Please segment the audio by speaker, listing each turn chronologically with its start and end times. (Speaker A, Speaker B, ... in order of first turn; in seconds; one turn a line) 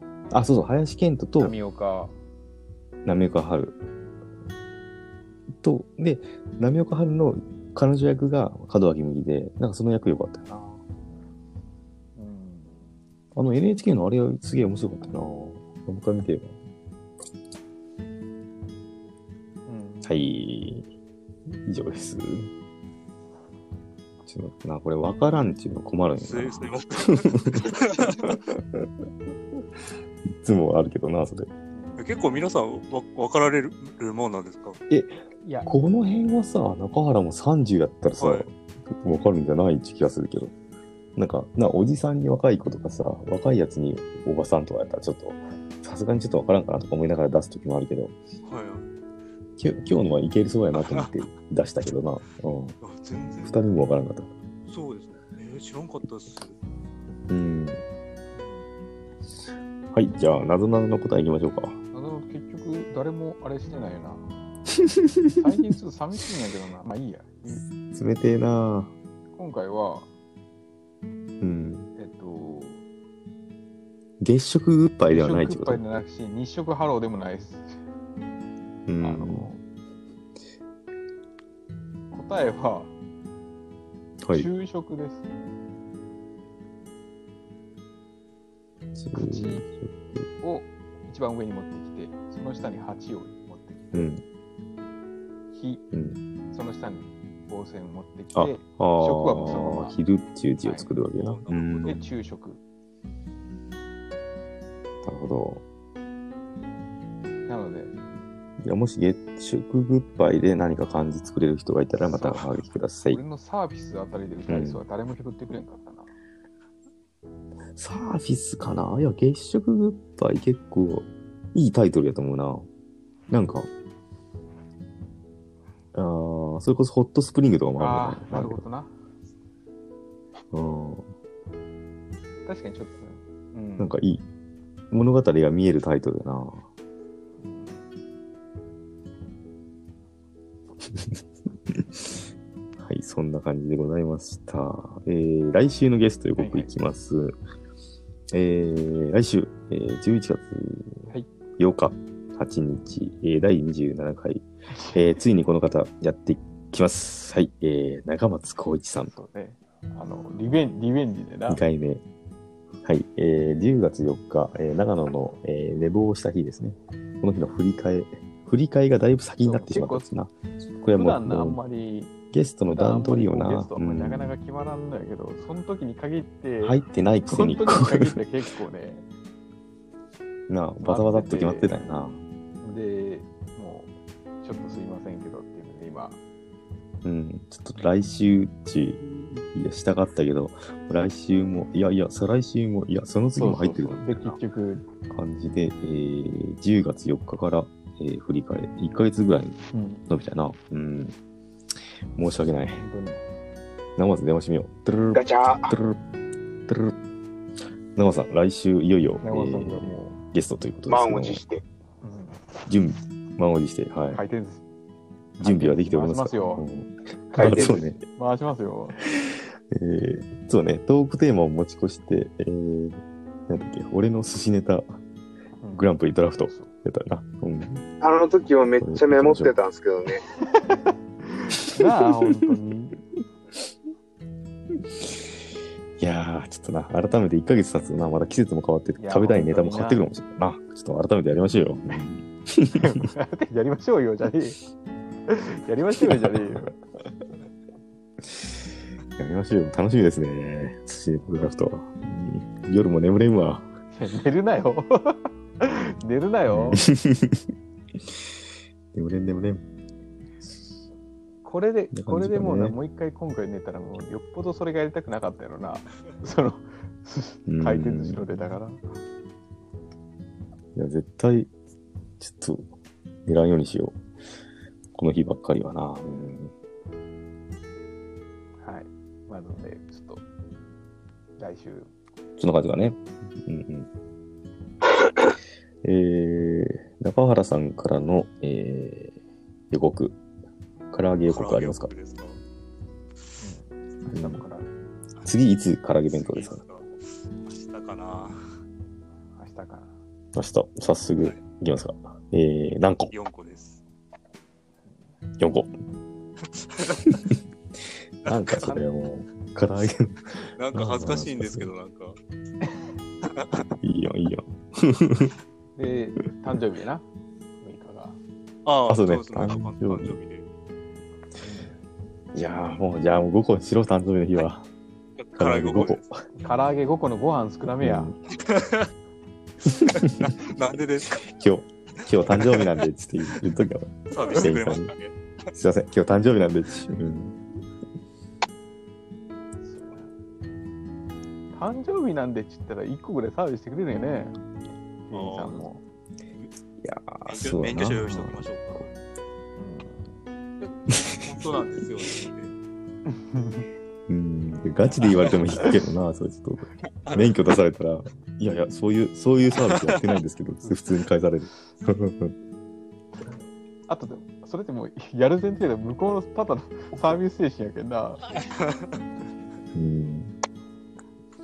Speaker A: 0.3-1.5
Speaker B: 1.4-2.1
Speaker A: 3.0-3.8
Speaker A: 5.5-10.8
Speaker B: 12.2-12.8
Speaker A: 13.3-16.5
Speaker B: 19.7-20.1
Speaker A: 20.0-20.9
Speaker A: 21.5-22.5
Speaker A: 24.2-28.9
Speaker C: 26.2-28.3
Speaker A: 30.2-31.5
Speaker B: 31.7-32.0
Speaker C: 32.0-34.8
Speaker A: 34.9-40.5
Speaker B: 35.4-35.7
Speaker C: 38.2-38.5
Speaker A: 41.1-48.1
Speaker C: 48.4-48.9
Speaker A: 49.6-52.8
Speaker C: 50.7-51.2
Speaker C: 52.8-53.6
Speaker A: 53.4-54.3
Speaker C: 54.7-56.6
Speaker A: 57.3-57.8
Speaker B: 58.4-58.6
Speaker A: 59.9-61.8
Speaker B: 61.9-64.2
Speaker A: 64.8-65.5
Speaker B: 65.3-67.6
Speaker A: 67.5-68.9
Speaker B: 69.3-70.1
Speaker A: 71.4-71.9
Speaker B: 72.0-72.8
Speaker A: 74.2-75.8
Speaker B: 75.0-77.8
Speaker A: 78.9-79.5
Speaker B: 79.0-79.6
Speaker B: 82.1-82.9
Speaker A: 84.2-84.5
Speaker B: 84.3-85.2
Speaker A: 88.9-90.3
Speaker B: 89.1-89.7
Speaker B: 90.4-94.1
Speaker A: 93.9-94.2
Speaker B: 95.5-95.8
Speaker A: 95.9-96.2
Speaker B: 96.5-100.0
Speaker A: 98.3-102.0
Speaker B: 100.6-100.9
Speaker C: 101.1-102.0
Speaker B: 101.8-102.6
Speaker A: 105.0-105.6
Speaker B: 107.5-107.9
Speaker A: 108.6-113.2
Speaker C: 112.2-112.6
Speaker B: 113.1-116.1
Speaker A: 114.5-114.8
Speaker A: 117.7-122.7
Speaker A: 123.3-123.7
Speaker A: 125.9-128.6
Speaker B: 127.8-128.9
Speaker A: 130.5-131.1
Speaker B: 132.4-133.9
Speaker A: 133.8-134.2
Speaker A: 134.9-136.7
Speaker B: 137.4-137.8
Speaker A: 140.8-142.2
Speaker A: 142.8-147.3
Speaker B: 146.4-146.8
Speaker A: 148.3-159.2
Speaker B: 154.7-155.2
Speaker B: 159.0-161.6
Speaker A: 161.5-162.0
Speaker A: 162.8-171.6
Speaker B: 169.4-170.1
Speaker B: 170.9-172.1
Speaker A: 172.3-174.3
Speaker B: 172.7-179.1
Speaker A: 176.6-178.2
Speaker A: 180.5-182.2
Speaker B: 180.8-181.7
Speaker B: 182.6-186.2
Speaker A: 187.0-194.4
Speaker B: 193.4-194.8
Speaker A: 195.1-201.2
Speaker B: 199.7-200.0
Speaker A: 202.2-202.8
Speaker B: 202.7-203.2
Speaker A: 204.0-206.0
Speaker D: 205.1-205.7
Speaker A: 206.7-207.0
Speaker A: 207.9-211.4
Speaker B: 209.2-210.2
Speaker D: 210.9-211.6
Speaker B: 212.0-212.4
Speaker A: 212.7-214.2
Speaker B: 214.1-214.6
Speaker A: 215.4-218.0
Speaker B: 215.4-216.6
Speaker B: 217.3-219.0
Speaker A: 218.9-224.9
Speaker B: 225.6-225.9
Speaker A: 225.7-227.8
Speaker D: 228.0-230.2
Speaker A: 228.8-229.6
Speaker B: 230.5-233.0
Speaker A: 231.8-232.3
Speaker A: 234.8-235.4
Speaker A: 236.0-243.1
Speaker B: 239.0-240.1
Speaker B: 242.7-244.6
Speaker B: 245.3-246.8
Speaker A: 246.0-246.6
Speaker A: 248.2-248.6
Speaker A: 249.2-253.7
Speaker B: 253.9-256.8
Speaker A: 256.5-257.5
Speaker A: 258.9-259.6
Speaker B: 261.4-268.8
Speaker A: 261.9-262.8
Speaker A: 267.5-268.3
Speaker A: 270.7-271.5
Speaker A: 272.2-272.7
Speaker A: 273.2-274.0
Speaker A: 274.9-276.5
Speaker B: 278.6-280.2
Speaker B: 281.4-281.9
Speaker A: 282.4-283.9
Speaker A: 285.8-289.1
Speaker A: 289.7-290.2
Speaker A: 290.9-291.9
Speaker C: 291.3-292.4
Speaker B: 293.4-294.7
Speaker A: 294.1-294.4
Speaker A: 295.2-296.6
Speaker C: 296.1-298.5
Speaker B: 299.4-299.9
Speaker A: 300.3-303.1
Speaker C: 303.1-303.8
Speaker A: 305.4-305.7
Speaker C: 306.6-307.1
Speaker A: 308.2-311.7
Speaker C: 308.3-308.8
Speaker C: 310.3-312.2
Speaker C: 313.3-313.7
Speaker A: 313.8-315.3
Speaker B: 315.8-317.0
Speaker B: 317.6-318.2
Speaker C: 318.6-320.4
Speaker A: 318.9-320.2
Speaker B: 321.4-321.7
Speaker A: 322.3-324.6
Speaker C: 325.2-326.0
Speaker A: 325.4-326.1
Speaker B: 326.4-328.1
Speaker A: 327.8-328.2
Speaker C: 328.4-328.9
Speaker A: 329.6-330.3
Speaker C: 329.8-331.2
Speaker A: 331.1-334.9
Speaker C: 332.0-332.9
Speaker C: 334.1-335.1
Speaker A: 335.5-337.4
Speaker B: 339.6-340.1
Speaker B: 341.5-344.4
Speaker B: 345.1-345.8
Speaker C: 345.1-345.6
Speaker A: 346.8-348.4
Speaker C: 347.2-348.9
Speaker B: 349.6-350.1
Speaker C: 350.6-352.5
Speaker A: 350.9-351.4
Speaker B: 353.1-353.6
Speaker A: 354.1-362.3
Speaker C: 355.0-355.4
Speaker C: 357.0-357.4
Speaker C: 359.6-360.0
Speaker B: 360.6-360.9
Speaker B: 363.9-368.2
Speaker C: 368.3-369.0
Speaker A: 369.7-370.3